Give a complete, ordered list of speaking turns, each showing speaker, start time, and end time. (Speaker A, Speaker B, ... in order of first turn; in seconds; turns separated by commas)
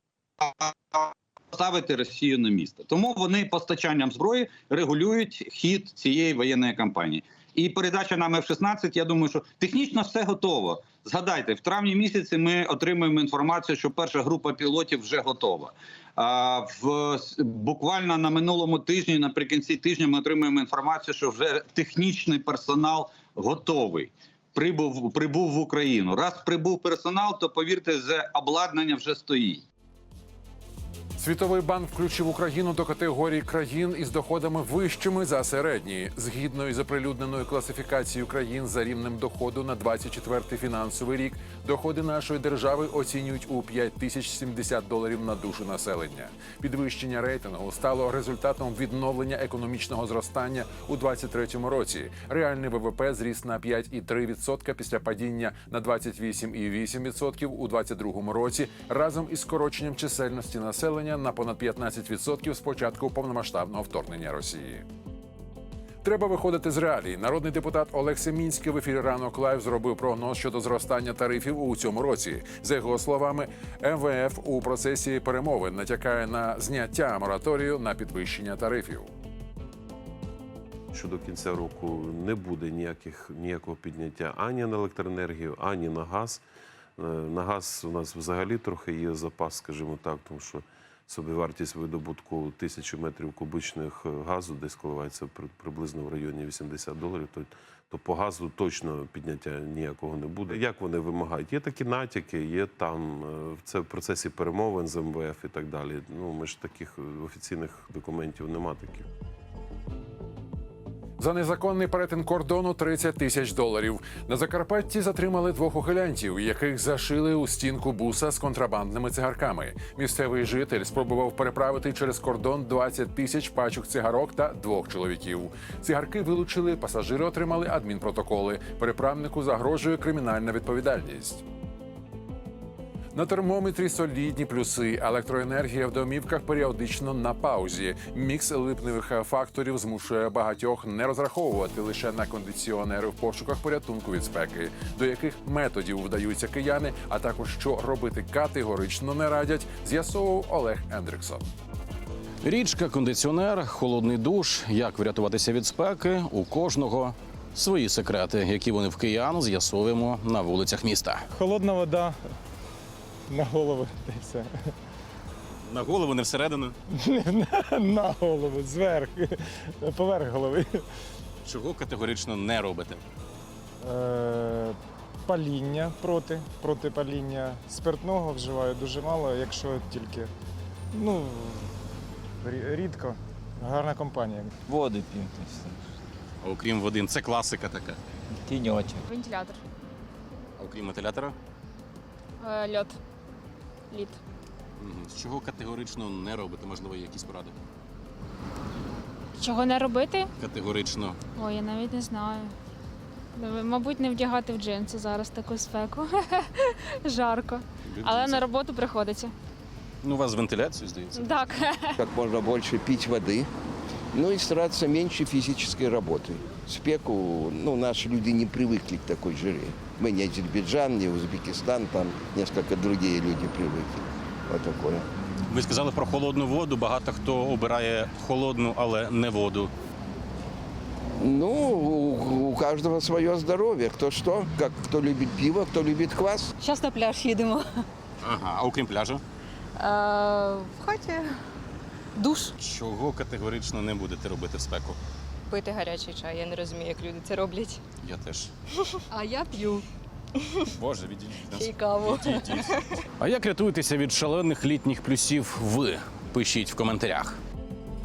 Speaker A: 0.4-29.6, Speaker B: 31.2-64.8, Speaker B: 66.0-79.1, Speaker C: 80.9-86.4, Speaker C: 87.0-109.1, Speaker B: 111.2-131.4, Speaker B: 133.1-151.4, Speaker D: 152.4-161.2, Speaker E: 161.3-162.1, Speaker F: 161.4-162.1, Speaker E: 163.3-164.5, Speaker F: 163.3-164.4, Speaker D: 165.6-166.7, Speaker E: 167.1-169.3, Speaker F: 167.1-167.6, Speaker F: 168.4-169.1, Speaker E: 169.8-170.7, Speaker F: 169.8-170.6, Speaker D: 171.4-173.0, Speaker E: 173.8-174.8, Speaker E: 175.3-180.3, Speaker F: 175.3-180.3, Speaker E: 180.9-181.6, Speaker F: 181.0-181.5, Speaker E: 182.4-184.5, Speaker F: 182.4-183.1, Speaker F: 183.7-185.7, Speaker D: 186.4-188.0, Speaker F: 188.5-189.0, Speaker G: 189.1-189.6, Speaker D: 190.6-191.3, Speaker G: 192.4-193.0, Speaker G: 193.9-194.2, Speaker D: 194.8-197.5, Speaker G: 199.4-200.3, Speaker D: 200.4-201.2, Speaker G: 201.3-202.5, Speaker G: 203.3-209.3, Speaker D: 207.9-208.4, Speaker D: 210.0-211.5, Speaker G: 211.1-212.0, Speaker H: 211.9-213.5, Speaker H: 214.1-225.0, Speaker D: 225.5-229.7, Speaker H: 231.2-236.5, Speaker I: 236.6-237.8, Speaker D: 238.2-239.2, Speaker I: 239.8-241.3, Speaker I: 242.2-242.5, Speaker D: 242.6-245.0, Speaker I: 245.5-247.8, Speaker D: 248.0-248.5, Speaker I: 249.1-249.8, Speaker D: 250.8-257.4, Speaker I: 251.6-252.8